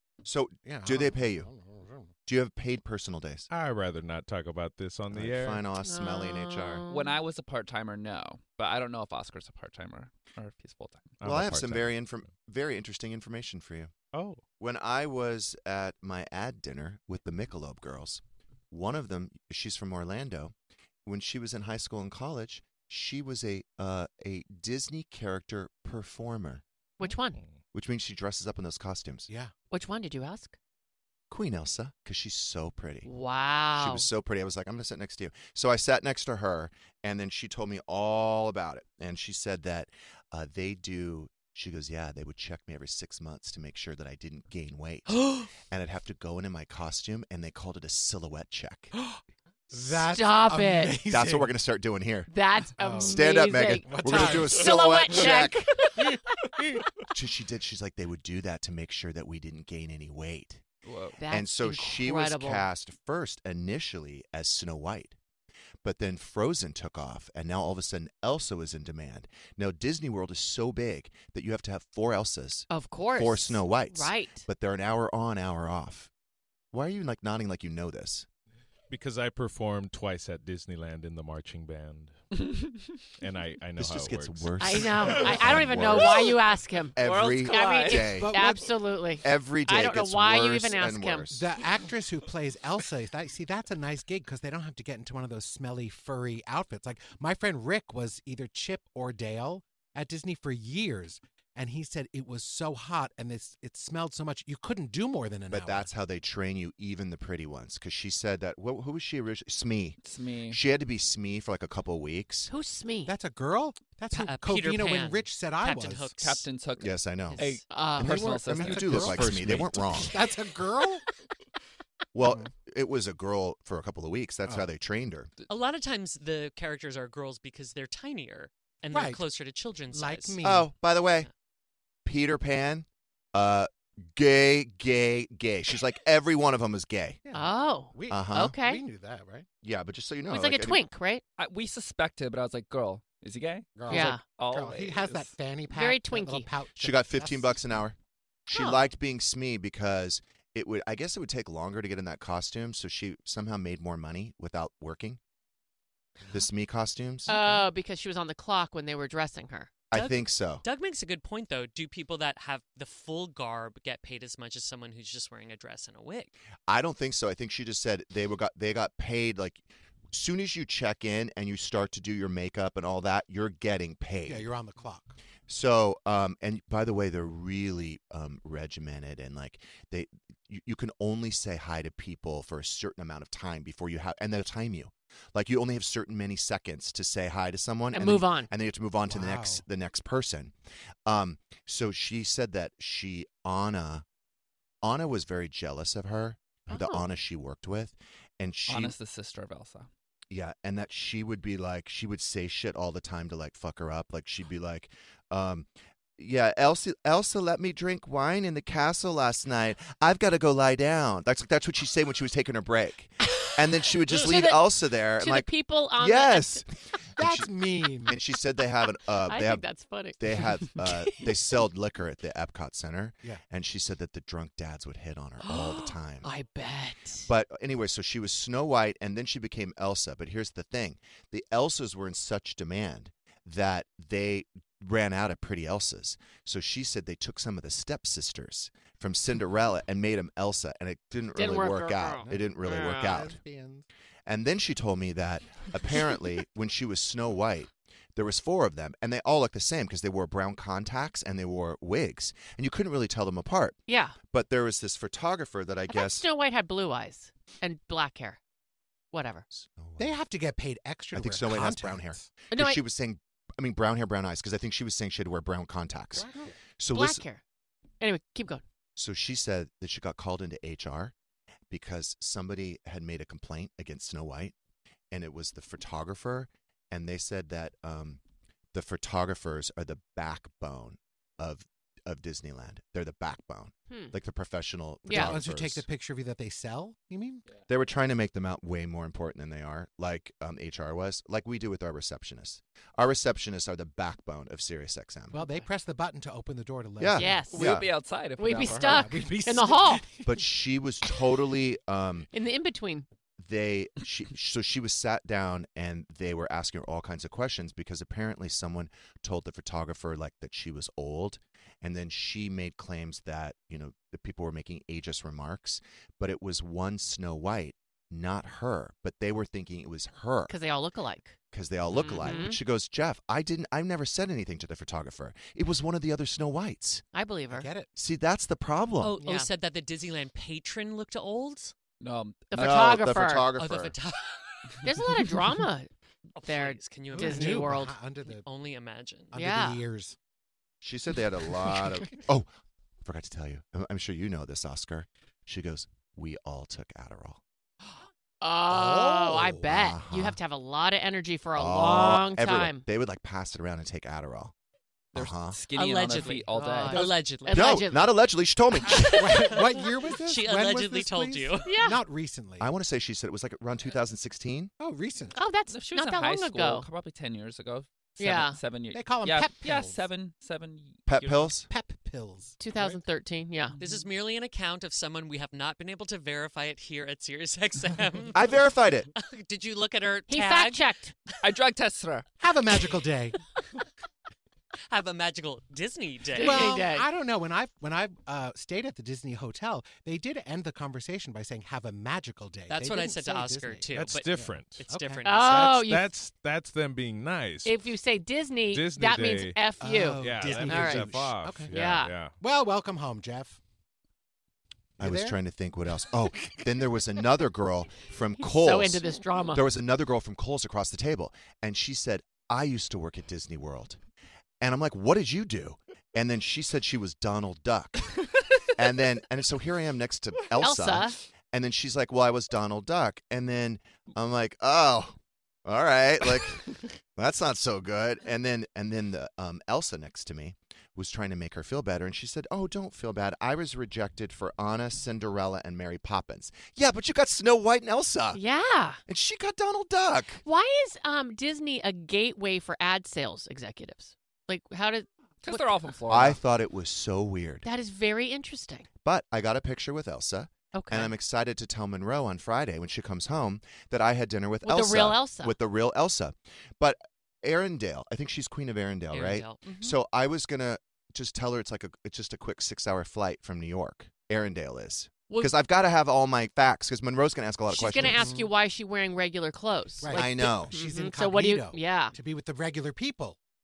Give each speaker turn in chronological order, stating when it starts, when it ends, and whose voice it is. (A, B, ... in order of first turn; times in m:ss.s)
0:00.2-0:01.5 A
0:00.7-0:02.1 B
0:02.3-0:03.5 A
0:03.5-0:05.6 C
0:05.1-0:06.8 A
0:05.8-0:07.2 D
0:06.9-0:11.2 E
0:11.2-0:12.0 C
0:11.2-0:13.9 A
0:14.1-0:14.4 C
0:14.6-0:20.5 A
0:21.0-0:26.6 A
0:27.0-0:27.4 D
0:27.0-0:27.6 C
0:27.7-0:29.3 A
0:29.3-0:29.5 B
0:29.7-0:30.6 D
0:31.3-0:33.1 A
0:33.0-0:34.1 D
0:33.8-0:48.9 A
0:49.7-0:51.5 B
0:50.1-0:51.0 D
0:51.1-0:52.3 A
0:52.3-0:56.2 D
0:52.8-0:53.2 B
0:53.0-0:55.7 A
0:53.8-0:54.8 B
0:57.0-1:00.6 A
1:00.8-1:01.2 E
1:01.2-1:02.6 D
1:01.3-1:05.2 A
1:05.8-1:16.1 A
1:12.7-1:14.5 D
1:16.7-1:18.3 A
1:18.9-1:22.2 C
1:22.3-1:23.2 E
1:23.2-1:25.9 C
1:23.8-1:26.4 A
1:24.6-1:31.3 D
1:27.0-1:28.5 A
1:27.0-1:28.2 E
1:28.1-1:28.7 B
1:29.2-1:31.5 A
1:31.3-1:45.9 B
1:45.5-1:50.0 A
1:50.0-1:50.6 E
1:50.5-1:52.5 A
1:52.5-1:53.1 D
1:53.1-1:56.1 B
1:54.1-1:56.5 F
1:56.2-1:59.6 E
1:56.8-1:57.5 A
1:57.3-1:58.3 D
1:58.0-2:01.0 B
1:58.2-2:00.2 A
1:59.1-1:59.8 C
2:02.1-2:05.3 A
2:02.2-2:02.5 B
2:05.5-2:10.4 F
2:08.9-2:09.2 B
2:09.9-2:10.7 B
2:10.4-2:11.3 A
2:12.0-2:17.2 A
2:17.2-2:19.5 B
2:17.3-2:18.8 D
2:18.1-2:18.6 A
2:19.6-2:20.8 A
2:20.3-2:21.2 D
2:21.4-2:25.3 E
2:23.8-2:27.6 B
2:23.9-2:24.2 D
2:25.7-2:26.5 D
2:26.8-2:35.2 A
2:28.5-2:28.9 D
2:36.3-2:37.4 A
2:37.3-2:39.7 D
2:37.3-2:37.6 B
2:39.9-2:40.6 A
2:39.9-2:46.4 F
2:46.7-2:54.5 A
2:54.3-2:55.2 B
2:55.5-3:10.5 A
3:07.9-3:08.5 D
3:09.1-3:09.6 B
3:11.1-3:14.0 A
3:14.8-3:19.0 A
3:16.7-3:17.0 D
3:18.7-3:19.9 E
3:20.3-3:37.5 A
3:34.1-3:34.6 D
3:35.2-3:36.6 D
3:37.2-3:38.2 B
3:38.0-3:46.3 A
3:39.2-3:41.3 D
3:45.4-3:47.3 D
3:47.2-4:03.4 A
4:01.4-4:03.0 D
4:02.3-4:03.9 B
4:04.3-4:16.3 A
4:13.9-4:14.2 D
4:15.9-4:18.4 D
4:19.1-4:19.5 D
4:19.5-4:20.2 A
4:20.0-4:22.3 B
4:21.1-4:27.2 A
4:22.5-4:22.8 D
4:26.2-4:26.5 B
4:26.9-4:27.4 D
4:28.0-4:28.6 D
4:29.0-4:31.1 A
4:31.7-4:34.6 A
4:35.1-4:38.2 A
4:38.7-4:45.9 A
4:45.1-4:45.4 D
4:45.1-4:47.5 B
4:47.7-4:55.4 A
4:55.3-4:57.6 B
4:57.0-4:57.9 A
4:57.2-4:57.7 D
4:57.5-4:59.2 E
4:58.4-5:00.0 D
4:58.6-5:00.4 B
5:00.2-5:02.3 A
5:02.3-5:03.1 D
5:03.4-5:20.5 A
5:20.5-5:21.4 D
5:21.5-5:27.0 A
5:22.0-5:22.6 D
5:27.1-5:27.7 D
5:27.5-5:27.9 B
5:28.0-5:29.2 A
5:29.0-5:31.7 F
5:29.2-5:29.5 D
5:32.0-5:33.0 E
5:32.5-5:33.5 D
5:32.6-5:34.0 A
5:33.6-5:34.7 F
5:34.8-5:35.9 D
5:36.4-5:37.8 F
5:36.4-5:38.0 D
5:37.1-5:38.5 B
5:38.3-5:39.3 F
5:39.3-5:40.2 B
5:39.3-5:39.8 D
5:40.8-5:42.5 A
5:43.0-5:47.4 A
5:48.4-5:52.8 D
5:48.7-5:49.6 B
5:49.6-5:50.4 A
5:51.6-5:54.5 A
5:55.1-5:55.6 A
5:55.1-5:57.1 E
5:55.8-5:57.8 F
5:56.3-5:58.1 D
5:57.5-5:59.4 A
5:58.9-6:01.8 F
5:59.1-6:02.7 B
6:01.7-6:02.0 D
6:02.6-6:04.7 A
6:04.8-6:05.4 B
6:05.3-6:06.9 D
6:05.7-6:11.6 E
6:08.2-6:08.6 D
6:08.9-6:10.1 B
6:11.1-6:11.7 A
6:11.6-6:13.0 B
6:12.6-6:13.8 D
6:13.8-6:20.8 F
6:18.3-6:19.1 A
6:20.3-6:21.1 D
6:21.4-6:22.3 E
6:22.4-6:23.4 B
6:24.9-6:26.8 F
6:26.3-6:27.1 D
6:26.4-6:35.3 B
6:32.7-6:35.7 F
6:34.0-6:34.9 C
6:35.2-6:36.1 D
6:35.4-6:37.8 C
6:37.6-6:41.1 D
6:38.7-6:39.7 C
6:39.8-6:41.8 B
6:40.2-6:42.4 C
6:41.7-6:42.1 D
6:42.4-6:43.6 B
6:45.0-6:45.4 B
6:45.0-6:54.0 A
6:48.4-6:49.7 D
6:54.6-6:58.2 A
6:58.7-7:18.4 A
7:00.6-7:01.2 D
7:18.3-7:19.0 D
7:19.1-7:20.4 A
7:20.4-7:25.8 D
7:25.4-7:26.4 E
7:26.1-7:27.6 A
7:27.6-7:28.9 D
7:29.0-7:48.3 A
7:30.7-7:31.1 D
7:34.6-7:35.6 D
7:39.1-7:39.9 F
7:47.7-7:52.2 D
7:48.0-7:48.5 B
7:50.0-7:53.4 B
7:50.1-7:50.7 A